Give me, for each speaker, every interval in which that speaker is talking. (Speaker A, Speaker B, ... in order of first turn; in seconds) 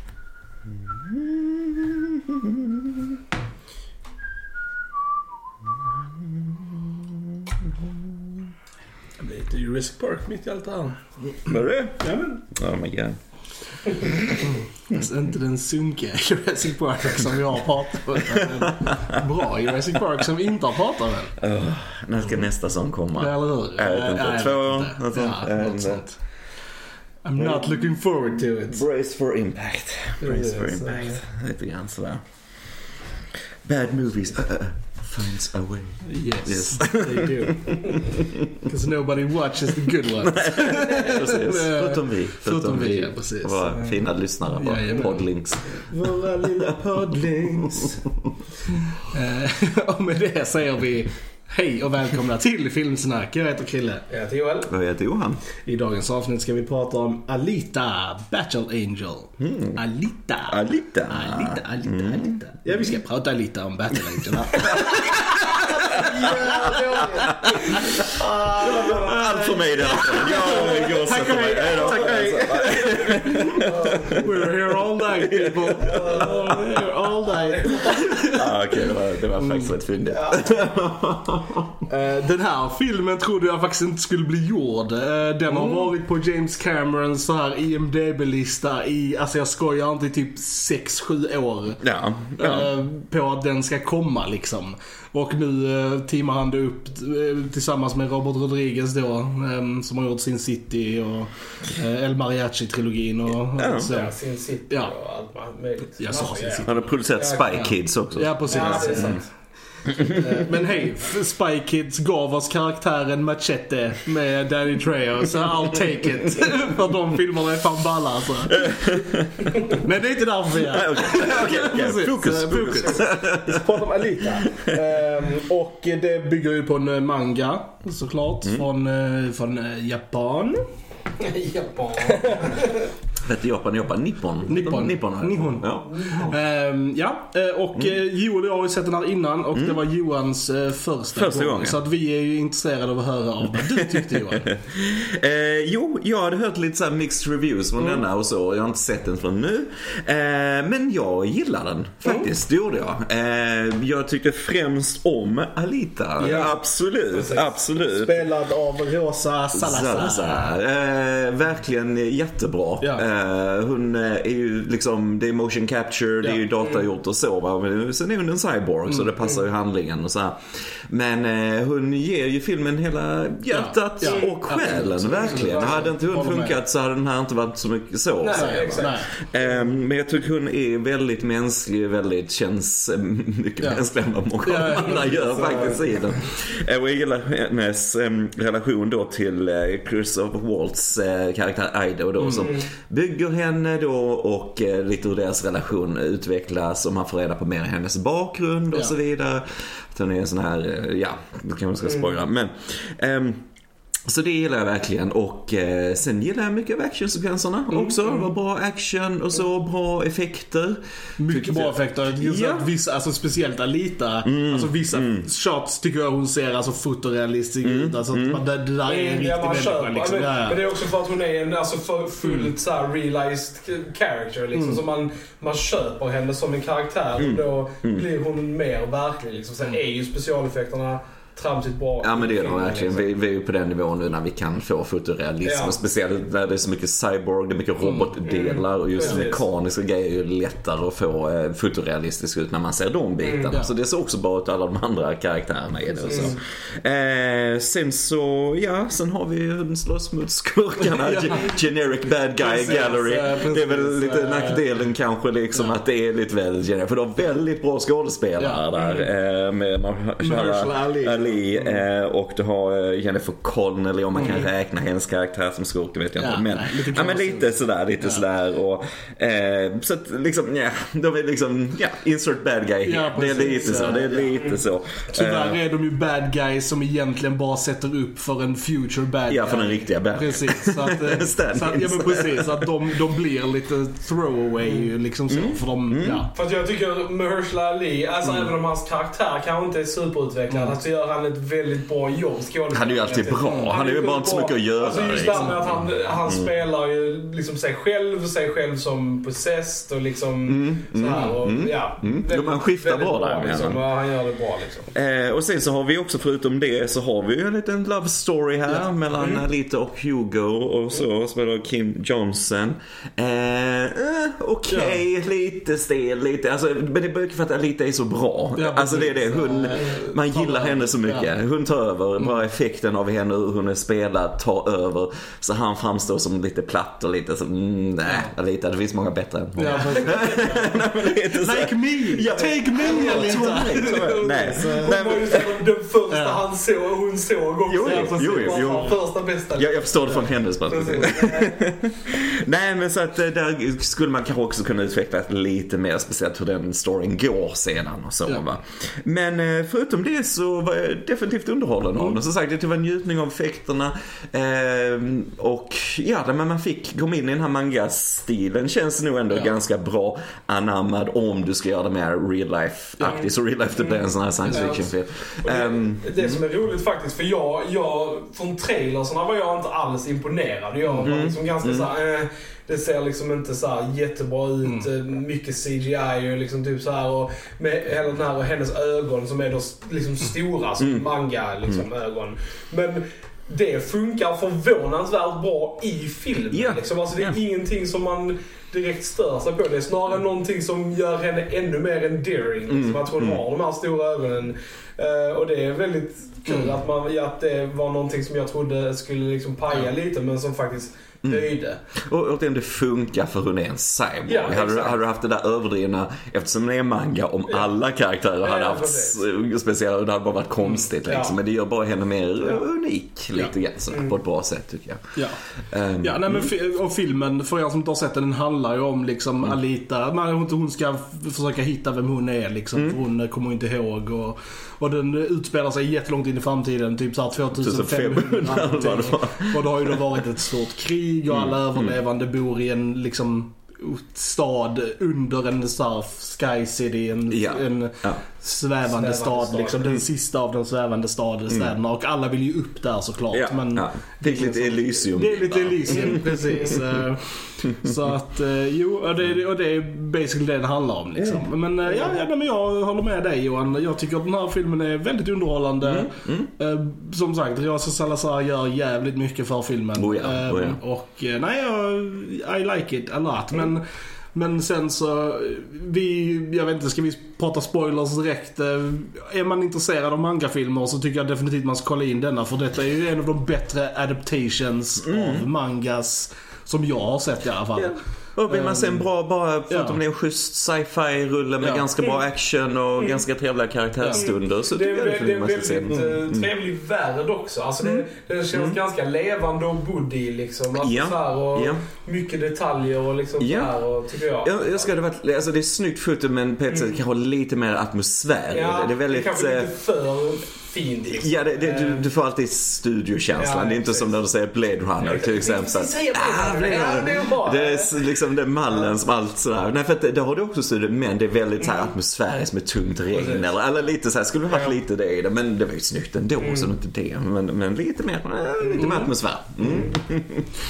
Speaker A: 0.8-3.1, 6.5-8.1, 11.5-13.2, 14.0-14.3, 18.2-18.7, 21.4-26.1, 27.4-32.2, 33.6-38.5, 40.2-48.3, 54.7-55.4, 59.4-59.8, 60.5-62.9, 64.1-76.5, 78.1-81.8, 85.5-85.9, 91.8-92.7, 103.4-103.9, 106.7-109.2, 109.9-110.3, 118.5-119.7, 120.7-123.6, 124.5-124.8, 133.2-136.3, 139.5-139.8, 141.1-141.8, 143.5-158.2, 159.6-203.5, 204.1-212.7, 214.2-215.3, 217.6-218.4, 227.2-228.1, 232.0-275.6, 279.3-282.7, 285.3-286.2, 292.7-296.5, 300.5-303.8, 304.9-335.6, 337.7-339.0, 339.6-366.4, 371.0-371.9, 380.8-381.1, 386.5-387.4, 392.7-393.4, 401.2-415.1, 415.6-416.5, 427.6-430.0, 431.3-432.0, 437.3-438.2, 443.3-447.1, 447.7-448.1, 451.2-451.4, 455.8-456.5, 460.0-460.8, 475.0-475.5, 477.8-486.5, 487.8-488.8, 490.7-491.8, 493.4-493.7, 494.4-499.7, 501.2-520.5
Speaker B: 9.2-11.5, 12.0-12.4, 14.4-21.4, 23.2-26.2, 27.2-28.8, 30.3-30.8, 36.0-38.0, 38.6-48.0, 48.8-54.0, 55.6-68.9, 70.0-78.5, 79.4-79.7, 81.9-91.8, 92.4-104.1, 106.0-106.9, 107.5-109.3, 110.0-118.7, 119.7-130.6, 132.0-132.7, 134.5-144.5, 156.2-156.5, 157.9-160.5, 173.5-176.6, 178.3-179.1, 183.6-183.9, 184.4-185.8, 192.2-192.5, 211.2-220.6, 224.5-224.8, 237.8-238.2, 239.0-239.3, 250.8-251.6, 252.4-254.6, 258.4-259.0, 260.2-261.8, 264.1-264.5, 266.2-268.2, 272.9-274.4, 275.1-286.3, 290.5-290.8, 293.4-293.7, 295.3-295.8, 314.7-315.0, 318.6-321.3, 329.6-330.6, 331.3-334.9, 336.1-336.4, 364.4-364.9, 370.8-371.1, 374.6-374.9, 396.5-396.8, 416.0-463.8, 464.4-477.9, 478.5-479.1, 479.7-480.0, 484.0-484.3, 518.8-519.1
Speaker C: 30.2-31.2, 46.0-46.7, 54.1-54.7, 65.9-74.3, 75.8-78.3, 80.1-80.5, 103.9-107.6, 108.5-109.3, 123.7-124.4, 131.2-132.9, 135.9-136.3, 156.2-156.6, 157.1-157.6, 166.6-166.9, 174.0-174.4, 175.2-175.8, 178.2-179.4, 185.4-185.7, 192.3-192.7, 201.9-202.2, 218.9-233.1, 235.4-235.8, 238.2-239.4, 243.2-243.5, 246.0-246.4, 273.5-274.6, 286.3-304.9, 309.2-309.4, 330.1-330.4, 332.9-341.7, 363.8-364.9, 365.4-401.8, 404.3-405.0, 408.4-409.2, 410.7-411.4, 413.9-414.2, 438.9-440.0, 484.1-494.9, 498.5-502.1, 503.4-504.1, 505.0-507.9, 511.6-511.9, 513.1-513.5, 514.5-514.8, 516.4-516.7, 518.7-519.0, 519.6-519.9